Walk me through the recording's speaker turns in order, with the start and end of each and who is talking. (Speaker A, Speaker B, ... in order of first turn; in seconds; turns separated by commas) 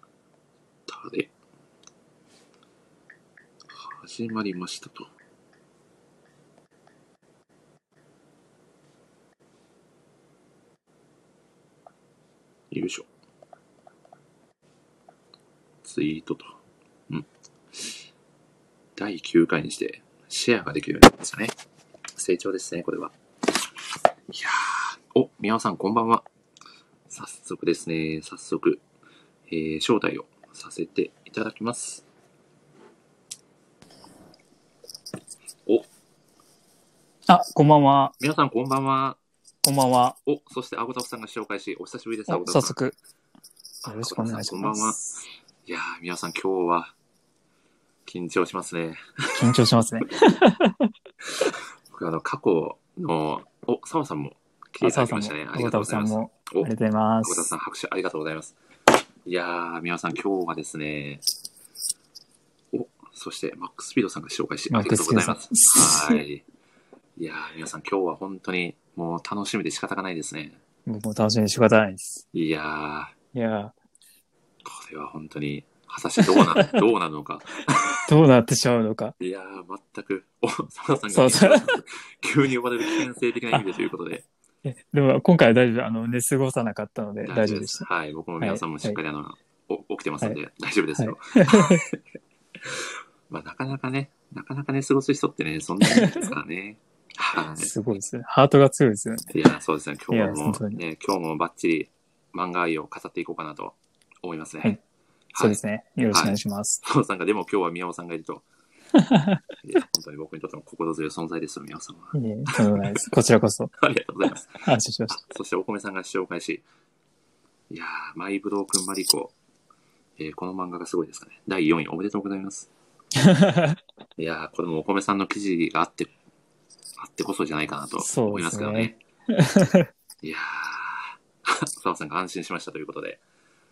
Speaker A: 0.9-1.3, Speaker A: 3.7-5.1, Speaker A: 12.7-13.1, Speaker A: 15.8-16.6, Speaker A: 17.1-17.9, Speaker A: 18.9-21.5, Speaker A: 22.2-23.1, Speaker A: 24.3-26.2, Speaker A: 27.1-28.8, Speaker A: 29.5-32.0, Speaker B: 37.3-38.1, Speaker A: 38.2-39.2, Speaker B: 39.6-40.2, Speaker A: 40.2-42.8, Speaker B: 42.3-42.9, Speaker A: 43.8-46.9, Speaker B: 43.9-45.0, Speaker A: 48.0-49.4, Speaker B: 49.3-50.9, Speaker A: 51.3-56.7, Speaker B: 54.8-57.4, Speaker A: 57.2-58.5, Speaker A: 59.2-61.2, Speaker A: 62.7-66.4, Speaker B: 64.7-66.2, Speaker A: 67.2-70.6, Speaker B: 70.8-72.2, Speaker A: 72.3-73.1, Speaker B: 73.3-73.7, Speaker A: 74.6-78.0, Speaker B: 76.3-76.7, Speaker B: 78.0-79.1, Speaker A: 79.2-84.2, Speaker B: 81.1-81.8, Speaker B: 84.6-87.9, Speaker A: 87.2-92.0, Speaker B: 88.4-89.0, Speaker B: 91.0-91.8, Speaker A: 92.6-97.7, Speaker B: 95.8-96.3, Speaker B: 97.6-99.3, Speaker A: 99.3-104.8, Speaker B: 100.1-100.8, Speaker A: 105.3-105.6, Speaker B: 105.4-106.8, Speaker A: 106.1-108.4, Speaker B: 108.9-109.4, Speaker A: 109.6-112.8, Speaker B: 112.1-113.7, Speaker A: 113.8-116.6, Speaker B: 114.6-115.2, Speaker A: 117.7-119.3, Speaker A: 120.2-122.7, Speaker B: 123.2-123.8, Speaker A: 124.2-126.1, Speaker A: 127.0-129.0, Speaker B: 128.0-129.9, Speaker A: 130.2-133.2